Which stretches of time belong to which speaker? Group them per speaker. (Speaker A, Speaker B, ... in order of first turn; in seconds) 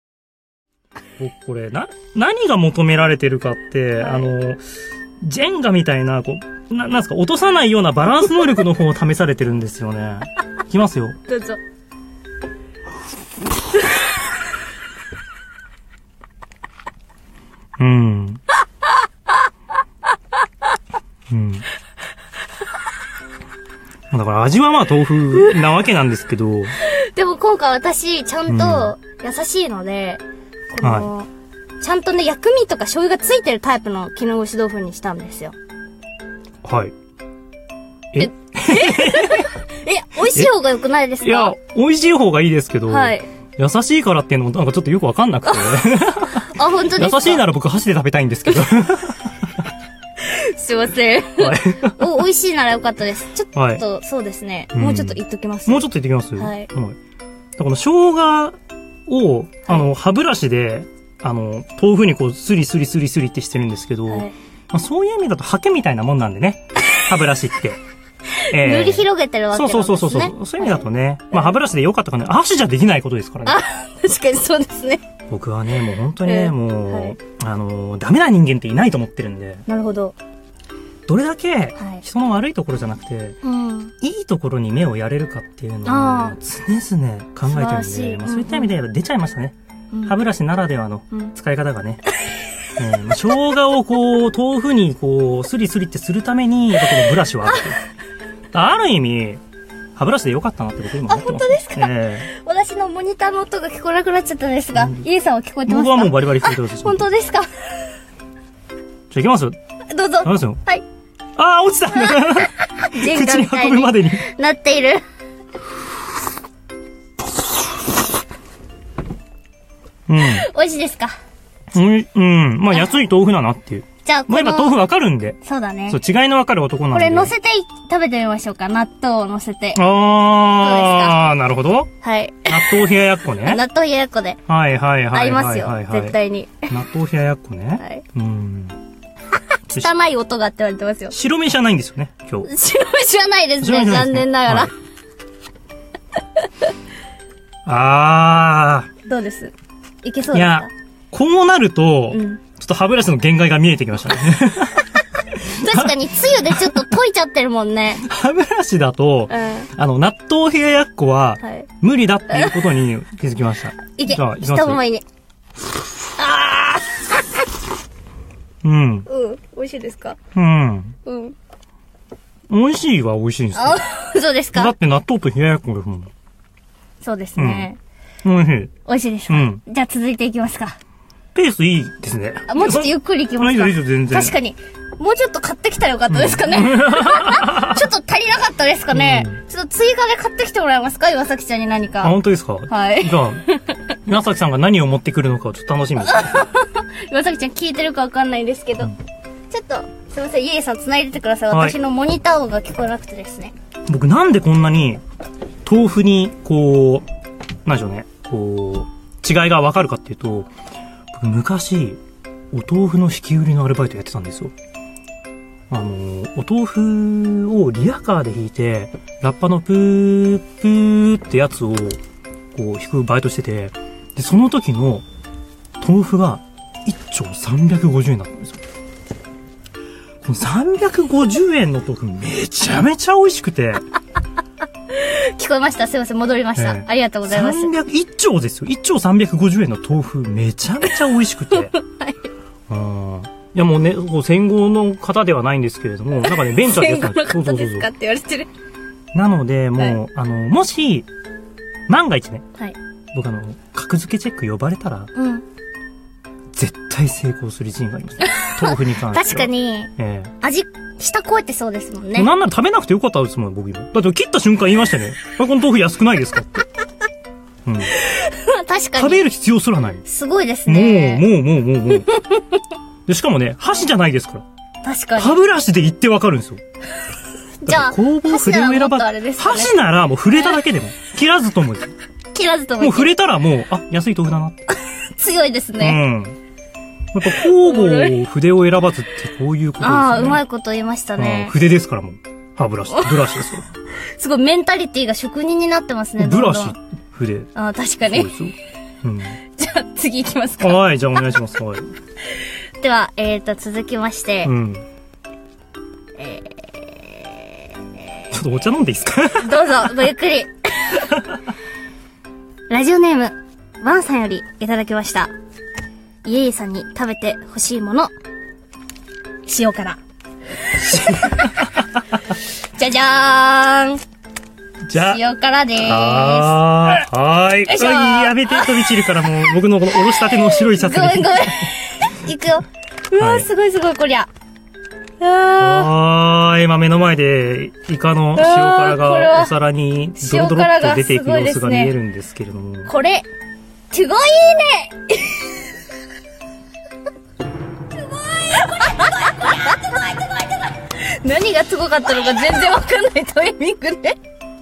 Speaker A: 1.2-4.6, 5.2-11.2, 17.8-18.4, 21.3-21.7, 24.1-26.8, 28.5-28.9, 30.8-31.1, 36.6-36.9, 38.1-39.5, 41.2-49.4, 51.4-52.2, 53.5-53.8, 54.7-57.0, 57.6-58.6, 59.1-67.8, 68.5-73.6, 75.3-79.7, 81.1-83.4, 84.0-89.5, 90.1-92.0, 92.8-97.8, 98.5-99.4, 100.0-102.3, 104.7-105.1, 105.7-107.0, 109.1-109.6, 110.2-110.6, 111.4-114.2, 120.1-120.5, 121.7-125.4, 125.9-127.3, 129.8-131.9, 132.5-133.6, 134.5-136.2, 136.7-138.8, 141.1-142.5, 143.6-144.7, 147.7-148.9, 150.3-156.9, 158.0-164.8, 168.6-169.1, 170.3-171.0, 172.5-173.8, 174.5-176.1, 177.4-177.7, 178.2-178.7, 179.3-179.6, 181.3-184.4, 186.1-187.8, 188.9-189.4, 192.0-193.4, 194.1-196.3, 201.5-201.8, 203.9-205.0, 205.7-207.1, 207.7-210.5, 211.1-212.0, 212.5-214.5, 215.7-222.0, 222.5-225.1, 225.8-228.6, 230.2-233.8, 236.6-241.7, 242.7-247.9, 249.1-251.1, 251.9-252.4, 253.1-255.1, 256.5-260.3, 262.1-266.7, 267.6-267.9, 268.9-270.1, 270.7-272.1, 273.1-274.4, 275.2-276.6, 277.7-281.9, 282.8-284.7, 285.8-286.4, 287.1-290.4, 291.2-293.6, 296.2-297.5, 298.1-299.4, 300.6-301.9, 304.4-304.9, 308.3-310.0, 320.8-321.9, 324.9-325.2, 325.8-331.7, 333.2-333.5, 335.6-342.9
Speaker B: 4.0-4.3, 11.3-11.6, 26.8-31.3, 31.8-35.5, 38.2-41.5, 42.9-43.3, 45.5-47.5, 50.2-55.9, 56.4-56.7, 64.1-64.3, 68.5-70.9, 73.5-75.0, 76.2-77.2, 79.7-80.2, 81.8-82.0, 83.4-83.9, 85.9-86.3, 87.5-88.8, 101.1-107.5, 109.9-110.8, 112.8-115.0, 120.2-121.2, 124.0-124.8, 125.4-126.0, 126.9-129.8, 130.6-131.3, 132.0-132.9, 133.4-134.4, 135.1-136.7, 137.8-138.0, 139.7-141.1, 142.4-144.7, 149.1-150.7, 152.1-152.4, 155.5-158.0, 159.3-159.7, 161.4-161.7, 162.3-162.6, 164.0-165.1, 166.2-166.8, 169.1-170.2, 171.1-171.3, 173.6-174.7, 177.0-177.8, 178.9-180.8, 182.5-192.2, 192.7-194.0, 196.0-198.9, 199.5-203.5, 234.9-237.7, 241.5-242.2, 246.3-248.5, 255.2-255.4, 258.2-262.3, 268.0-269.3, 270.1-271.3, 272.1-272.4, 274.8-275.4, 277.6-279.8, 282.3-283.1, 284.9-286.0, 287.5-288.1, 289.8-291.5, 292.9-293.3, 294.2-296.8, 297.6-298.3, 299.6-300.8, 302.8-304.5, 306.2-308.1, 309.4-311.2, 312.7-315.3, 316.2-318.1, 319.5-320.0, 321.1-321.5, 322.8-324.0, 324.9-326.9, 327.7-329.0, 330.2-334.3, 335.2-335.9, 338.4-339.6, 340.2-341.9, 342.9-343.3, 343.9-345.6, 348.3-354.2